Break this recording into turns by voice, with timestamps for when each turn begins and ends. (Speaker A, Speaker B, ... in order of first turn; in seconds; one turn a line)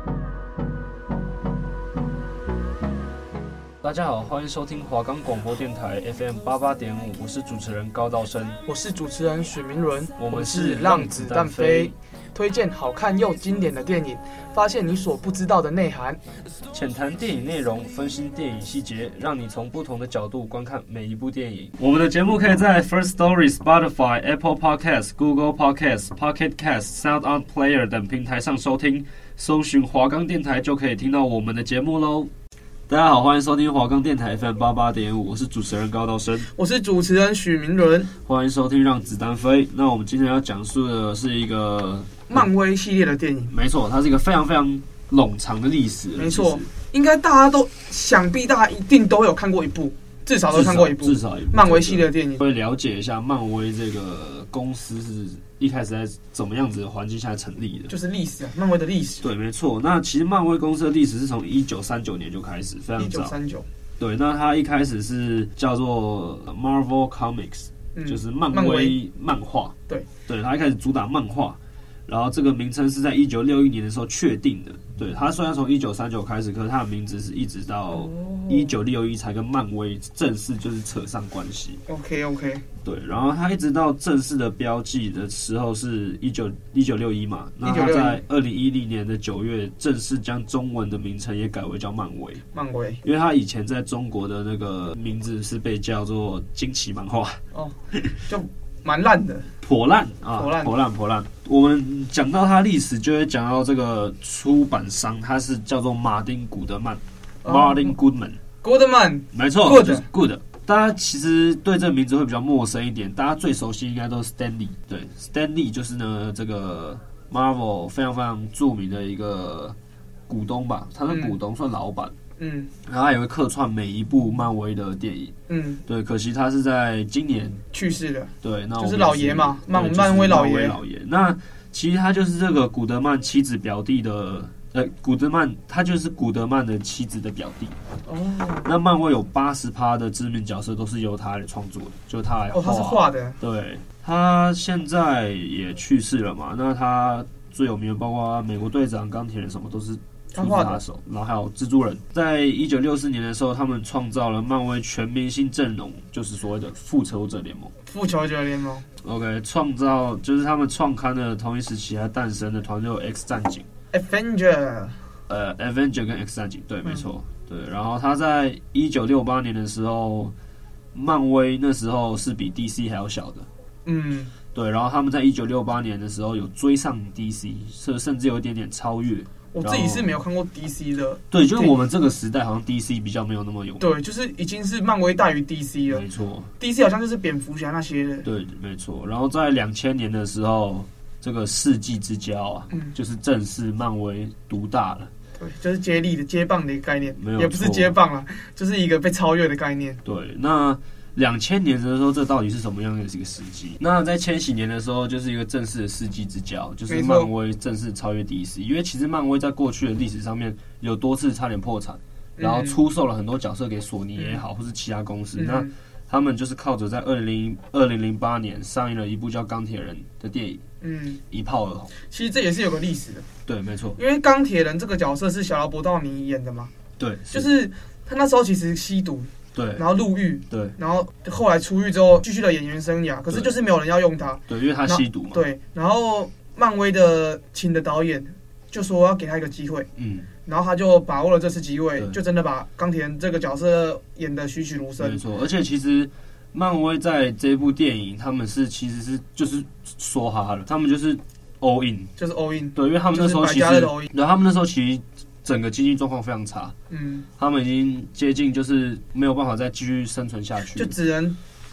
Speaker A: 3.8-8.6
Speaker B: 8.7-16.2
Speaker A: 10.2-11.9
Speaker A: 16.7-32.3
Speaker A: 32.9-36.5
Speaker B: 36.5-38.1
Speaker A: 38.1-42.5
Speaker B: 42.3-43.5
Speaker A: 43.5-46.7
Speaker B: 46.2-52.4
Speaker A: 50.5-57.9
Speaker B: 57.9-59.3
Speaker A: 59.2-63.3
Speaker B: 63.0-63.7
Speaker A: 64.0-69.8
Speaker B: 68.0-69.0
Speaker A: 70.3-81.8
Speaker B: 77.9-78.7
Speaker B: 81.9-82.6
Speaker A: 82.8-92.4
Speaker B: 87.6-88.2
Speaker B: 92.5-93.0
Speaker A: 93.0-97.4
Speaker B: 97.5-99.5
Speaker A: 99.6-108.4
Speaker B: 100.3-100.7
Speaker B: 107.4-108.0
Speaker B: 108.6-110.1
Speaker A: 109.3-119.8
Speaker A: 120.3-122.2
Speaker B: 121.1-121.4
Speaker B: 122.4-122.7
Speaker A: 122.8-127.6
Speaker B: 125.5-125.8
Speaker B: 127.7-130.8
Speaker A: 128.4-137.8
Speaker B: 138.1-138.7
Speaker A: 138.6-157.7
Speaker B: 142.5-143.4
Speaker B: 150.3-150.8
Speaker B: 157.9-158.9
Speaker A: 159.0-163.7
Speaker B: 163.9-165.0
Speaker A: 165.3-170.3
Speaker A: 170.9-173.5
Speaker B: 173.9-174.3
Speaker A: 174.5-180.1
Speaker B: 179.5-181.7
Speaker A: 181.3-183.9
Speaker B: 183.8-186.1
Speaker A: 185.9-186.5
Speaker B: 186.6-188.2
Speaker A: 188.2-195.1
Speaker B: 195.4-200.0
Speaker A: 197.2-198.0
Speaker A: 200.0-220.7
Speaker B: 206.9-207.3
Speaker B: 212.4-212.8
Speaker B: 214.2-214.4
Speaker B: 215.4-215.7
Speaker B: 220.8-221.2
Speaker A: 221.3-221.9
Speaker B: 222.0-223.3
Speaker A: 223.5-224.0
Speaker B: 224.0-226.7
Speaker A: 227.0-227.5
Speaker B: 227.3-239.9
Speaker A: 229.5-229.9
Speaker A: 230.5-230.8
Speaker A: 233.3-233.6
Speaker A: 234.5-235.4
Speaker A: 240.0-240.3
Speaker B: 240.4-245.2
Speaker A: 245.0-252.1
Speaker B: 252.2-254.1
Speaker A: 252.8-256.8
Speaker B: 256.9-257.3
Speaker A: 257.4-260.9
Speaker B: 260.8-261.4